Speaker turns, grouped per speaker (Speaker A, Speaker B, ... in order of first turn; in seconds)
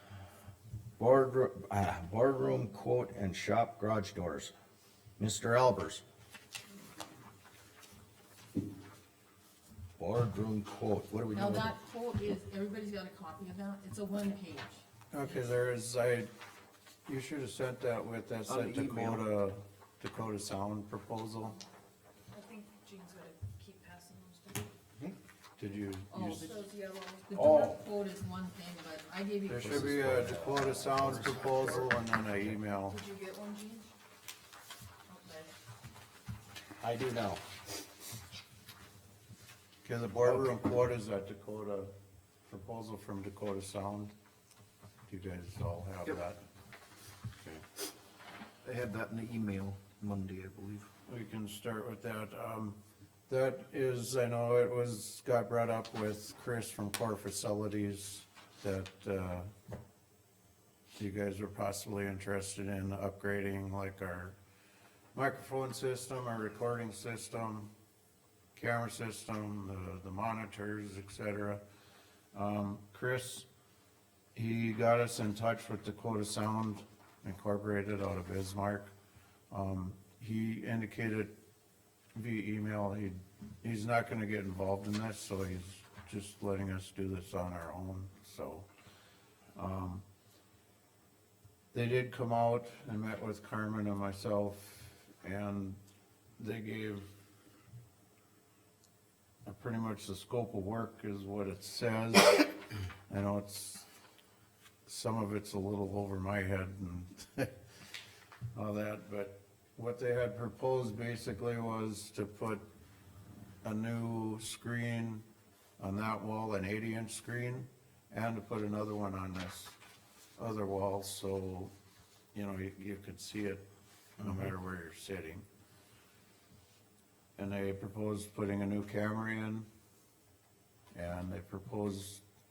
Speaker A: 1.0-4.5, 5.2-6.0, 10.0-11.7, 27.3-27.8, 29.6-31.9, 36.8-37.4
Speaker B: 11.3-14.8, 26.1-26.6, 27.3-30.1, 35.1-35.5
Speaker C: 15.1-16.3, 17.1-21.6, 25.6-26.5, 29.5-33.0, 39.8-41.9, 42.5-44.1, 45.1-46.4, 51.0-52.8, 53.3-59.5, 60.9-64.3, 65.1-67.7, 68.5-71.6, 72.3-73.5, 74.3-78.9, 79.5-81.3, 82.1-88.7, 89.5-90.0, 91.7-95.8, 96.4-97.1, 99.4-102.5, 103.1-103.8, 104.8-107.5, 108.5-112.7, 113.6-115.2, 115.8-119.8, 120.4-121.7, 122.3-123.6, 124.2-125.4, 127.3-129.7, 130.9-132.2
Speaker D: 18.5-19.3, 48.6-50.9
Speaker E: 22.3-24.7, 26.4-27.3, 32.9-33.9, 35.1-35.5